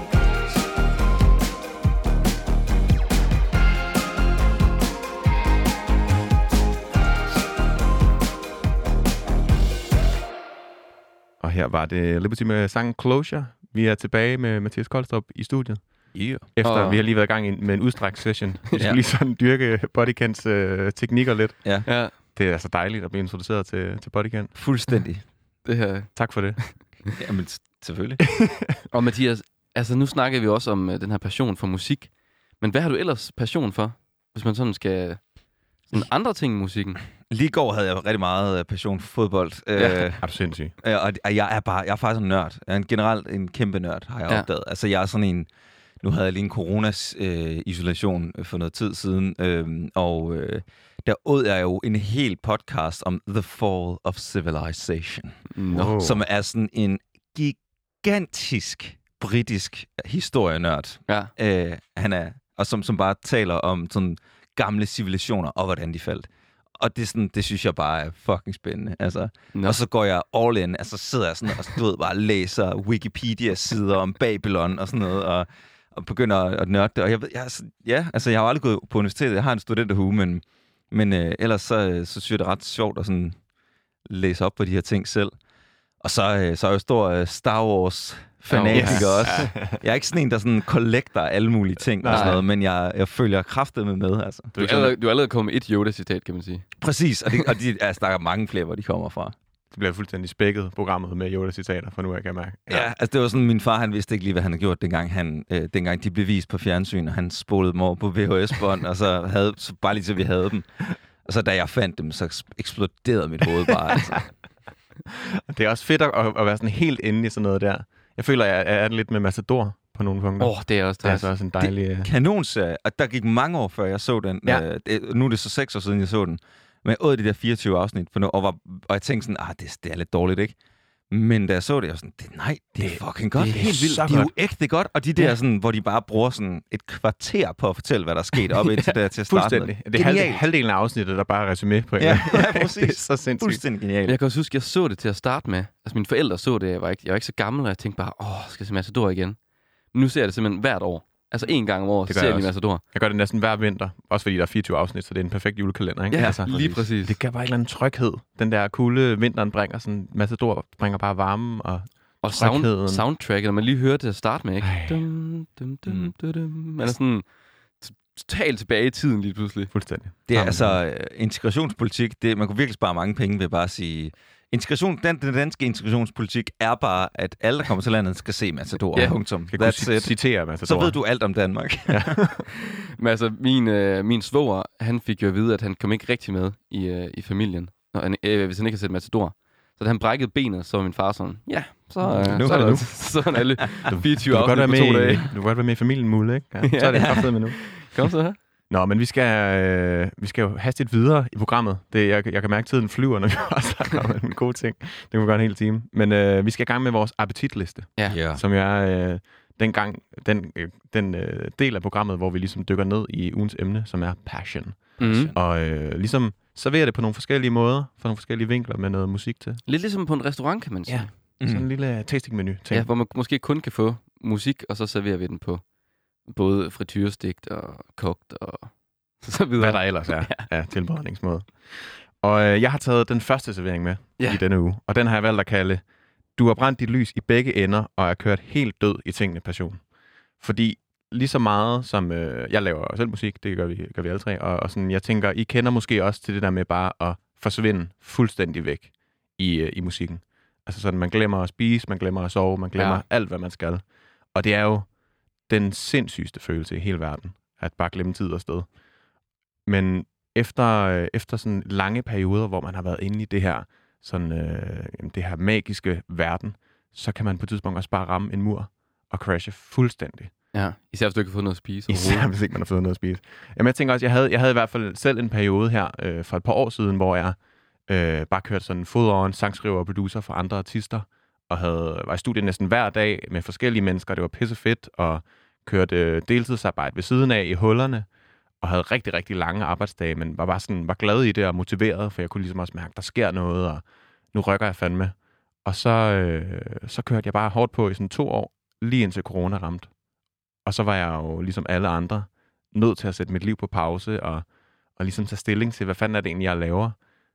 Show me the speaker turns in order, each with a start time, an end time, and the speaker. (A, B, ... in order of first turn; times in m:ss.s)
0:11.4-0:24.5 A
0:16.1-0:16.4 B
0:16.6-0:17.0 C
0:21.9-0:22.1 C
0:24.5-0:25.2 B
0:25.6-0:26.7 C
0:26.1-0:26.8 A
0:27.2-0:28.3 B
0:28.9-0:37.0 C
0:37.3-0:45.5 B
0:39.8-0:40.1 C
0:40.2-0:40.7 A
0:46.0-1:23.4 B
0:55.5-0:56.0 C
0:55.7-0:56.2 A
1:09.5-1:09.8 C
1:24.0-1:25.3 B
1:26.0-1:34.6 B
1:28.5-1:29.5 C
1:28.7-1:29.8 A
1:32.0-1:32.4 A
1:32.1-1:32.4 C
1:34.5-1:34.9 A
1:34.6-1:36.7 C
1:36.8-1:39.3 B
1:39.7-1:42.9 A
1:42.7-1:54.3 B
1:55.5-2:02.1 A
2:00.4-2:01.3 C
2:01.6-2:10.6 B
2:11.1-2:20.4 B
2:12.8-2:14.3 A
2:13.4-2:14.1 C
2:18.6-2:18.9 C
2:19.3-2:23.6 A
2:22.0-2:24.2 B
2:24.0-2:29.4 C
2:29.9-2:32.8 C
2:32.1-2:43.0 A
2:36.1-2:37.2 C
2:36.1-2:36.8 B
2:42.2-2:49.7 C
2:44.6-2:45.0 A
2:45.8-2:46.1 B
2:49.7-2:50.8 A
2:50.3-3:02.2 B
2:58.9-3:01.0 A
3:01.9-3:02.4 A
3:03.0-3:15.3 C
3:12.0-3:13.0 A
3:12.2-3:13.6 B
3:13.9-3:17.9 A
3:16.6-3:18.4 C
3:16.9-3:17.2 B
3:18.7-3:39.6 A
3:28.1-3:28.4 B
3:35.0-3:35.3 C
3:35.0-3:35.4 B
3:39.6-3:41.1 C
3:40.9-3:42.9 A
3:41.4-3:41.6 B
3:42.7-3:45.6 C
3:46.2-3:50.5 C
3:49.6-3:59.8 A
4:00.4-4:18.7 A
4:12.8-4:13.0 C
4:19.6-4:30.4 A
4:30.5-4:32.3 C
4:31.9-4:48.1 A
4:48.6-4:59.9 A
5:00.6-5:07.0 A